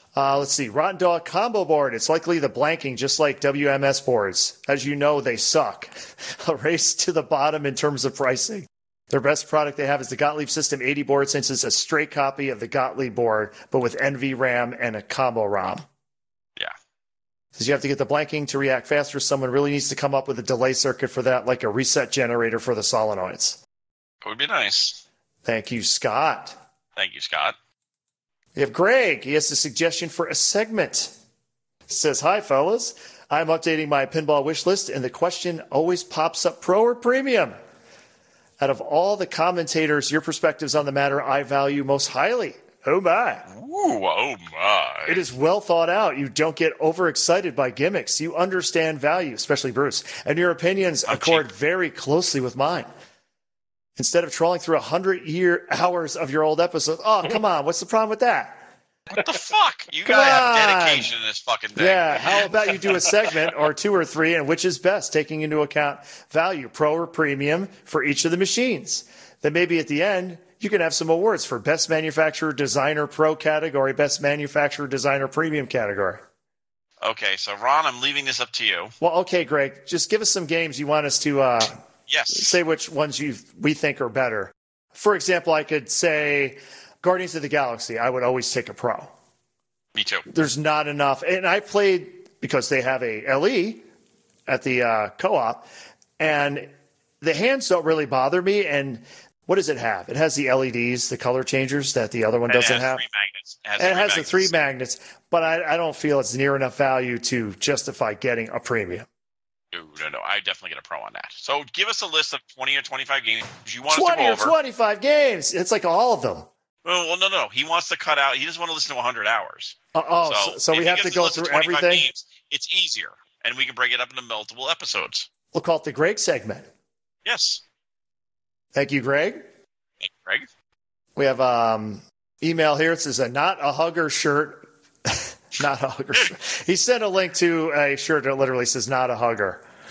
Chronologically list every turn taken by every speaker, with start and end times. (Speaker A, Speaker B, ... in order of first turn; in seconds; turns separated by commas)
Speaker A: 0.1-15.8, Speaker A: 17.5-23.6, Speaker B: 24.2-25.0, Speaker A: 25.4-26.6, Speaker B: 26.9-27.5, Speaker A: 28.6-31.1, Speaker A: 31.9-37.5, Speaker A: 38.6-43.5, Speaker B: 43.5-45.2, Speaker A: 45.1-52.9, Speaker B: 51.1-51.4, Speaker A: 54.0-58.7, Speaker B: 59.1-63.0, Speaker A: 60.0-61.1, Speaker A: 61.7-76.2, Speaker B: 77.0-78.9, Speaker A: 79.0-81.8, Speaker B: 82.1-82.6, Speaker A: 82.3-89.1, Speaker B: 89.9-90.2, Speaker A: 90.3-93.8, Speaker A: 94.5-95.7, Speaker A: 96.2-103.0, Speaker B: 102.5-104.5, Speaker A: 103.8-109.1, Speaker B: 109.7-114.5, Speaker A: 113.9-116.5, Speaker B: 116.8-125.3, Speaker A: 119.9-122.1, Speaker A: 125.5-126.7, Speaker B: 127.2-127.6, Speaker A: 128.7-129.4, Speaker B: 130.0-130.4, Speaker A: 131.2-139.6